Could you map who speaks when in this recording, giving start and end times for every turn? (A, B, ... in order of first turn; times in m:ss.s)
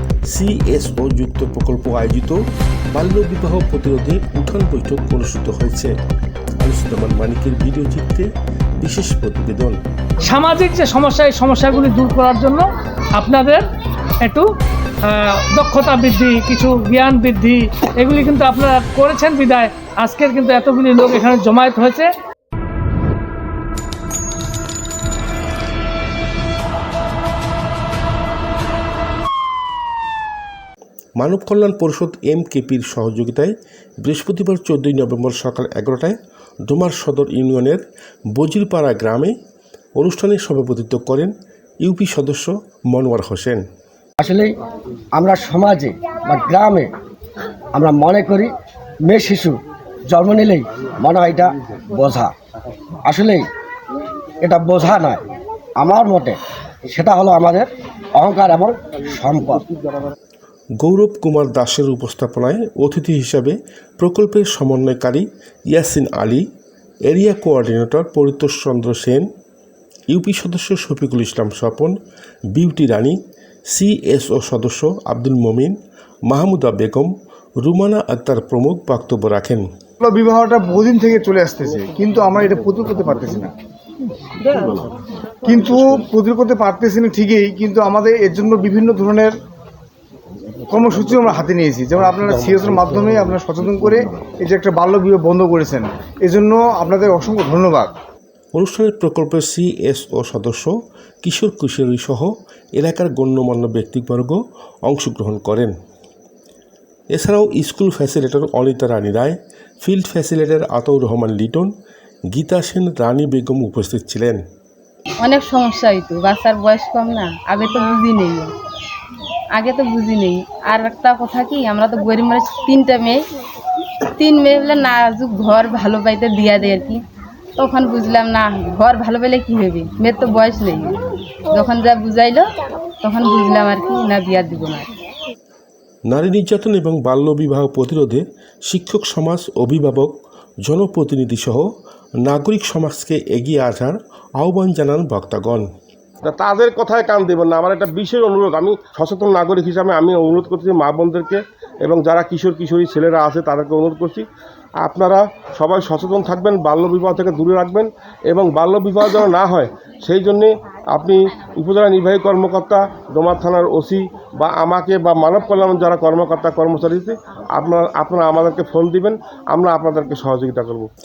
0:00.3-0:02.4 A
0:02.9-0:05.9 A
0:06.6-0:09.8 A
0:10.2-0:12.6 B
0:13.2-0:13.6 B
0:14.2-0:14.5 B
0:15.0-0:22.1 B
0:31.2-0:36.2 A
0:36.7-0:37.8 A
0:38.4-0:39.3 A
0:40.0-0:41.3 A
0:41.8-0:43.6 A
0:44.2-0:44.5 C
0:45.1-0:46.9 C
0:47.7-0:48.5 C
0:49.0-0:52.3 C
0:53.0-0:53.5 C
0:54.4-0:55.2 C
0:55.8-0:59.7 C
1:00.8-1:06.4 A
1:07.1-1:09.3 A
1:10.1-1:12.0 A
1:12.5-1:15.8 A
1:16.3-1:19.6 A
1:20.0-1:23.5 D
1:25.4-1:29.3 D
1:30.7-1:37.9 D
1:38.5-1:45.7 A
1:47.1-1:51.7 A
1:52.3-1:54.4 A
1:55.2-1:58.5 E
1:59.5-2:03.2 E
2:04.1-2:07.0 E
2:07.6-2:14.9 E
2:16.1-2:20.1 A
2:20.6-2:21.7 A
2:22.2-2:25.7 A
2:26.2-2:34.2 F
2:34.8-2:50.9 F